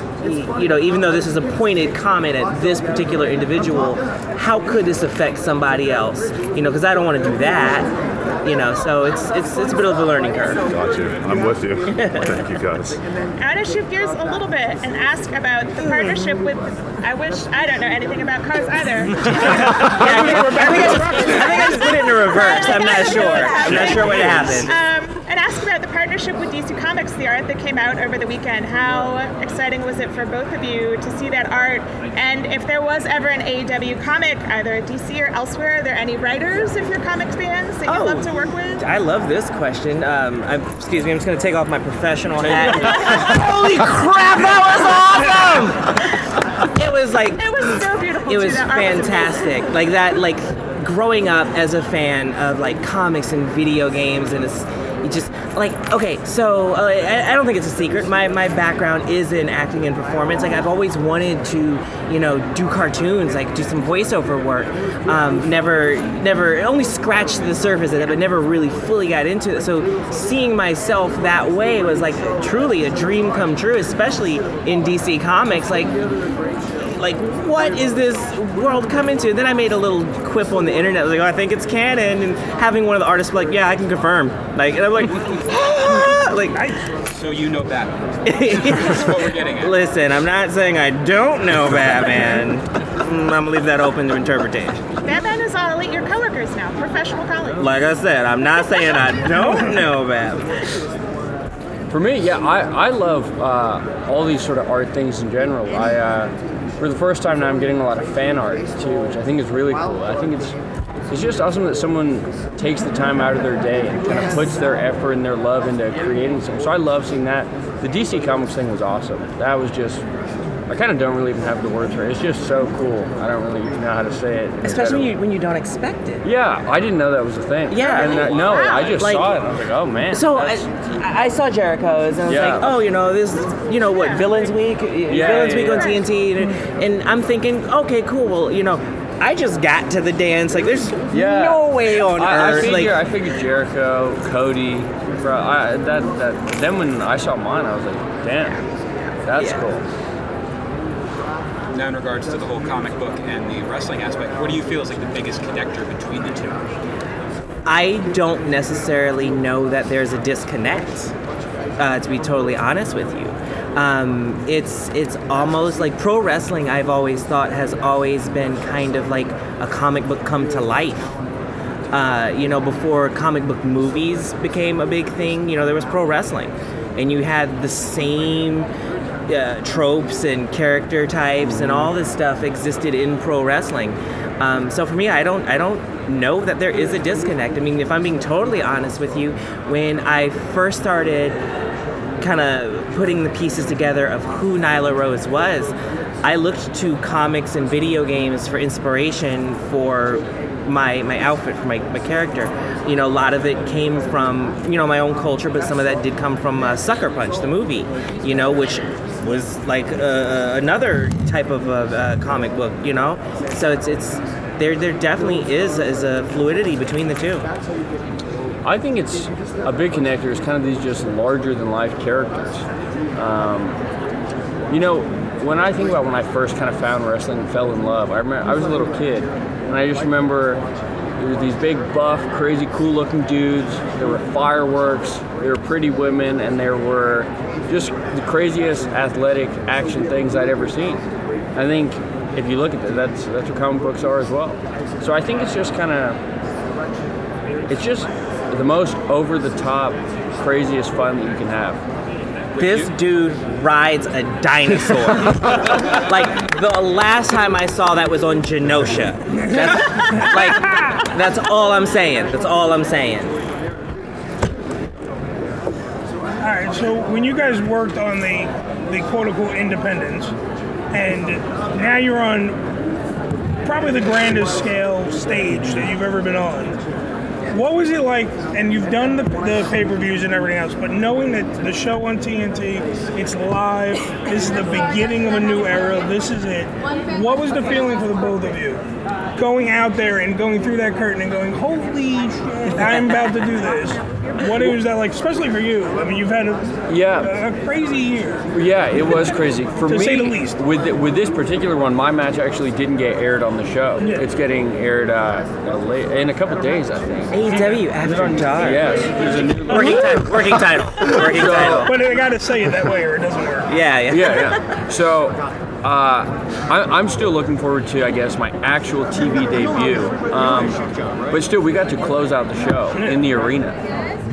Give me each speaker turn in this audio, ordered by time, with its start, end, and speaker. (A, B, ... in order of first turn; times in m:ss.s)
0:00.2-0:07.9 A
0:08.4-0:10.6 A
0:10.7-0:13.0 B
0:11.9-0:12.3 A
0:13.4-0:38.8 C
0:15.8-0:16.2 A
0:19.2-0:24.8 A
0:19.4-0:21.5 D
0:37.8-0:38.3 A
0:38.8-0:45.9 A
0:42.6-0:43.2 E
0:46.8-0:47.8 A
0:47.4-0:49.7 C
0:48.3-1:16.0 A
1:16.9-1:26.7 A
1:27.0-1:29.8 F
1:28.2-1:34.8 A
1:35.0-1:37.7 C
1:37.6-1:40.4 A
1:39.2-1:39.8 D
1:41.9-2:00.0 E
2:00.7-2:05.2 E
2:04.6-2:06.2 A
2:06.2-2:10.6 E
2:07.7-2:09.5 A
2:10.1-2:23.0 A
2:12.2-2:12.7 E
2:15.1-2:16.0 E
2:21.1-2:28.6 E
2:29.2-2:29.8 E
2:31.7-2:36.6 F
2:37.6-2:41.1 A
2:41.8-2:51.1 A
2:51.9-2:58.7 A
2:59.3-3:11.4 A
3:01.4-3:01.9 E
3:12.2-3:37.5 A
3:38.6-3:42.6 E
3:43.2-3:43.8 E
3:44.7-3:50.6 E
3:51.2-4:01.0 E
4:01.6-4:06.2 E
4:07.7-4:11.8 E
4:12.5-4:13.0 F
4:12.6-4:23.4 A
4:19.4-4:20.2 D
4:26.4-4:30.3 D
4:30.9-4:32.6 D
4:33.6-4:36.8 D
4:37.5-4:48.8 D
4:49.4-4:58.5 D
4:56.9-4:57.3 E
4:58.5-5:07.3 E
4:59.9-5:00.6 D
5:04.0-5:04.2 D
5:07.3-5:11.9 A
5:08.1-5:11.9 E
5:11.4-5:13.7 D
5:13.7-5:14.6 A
5:14.1-5:23.8 E
5:22.9-5:23.2 D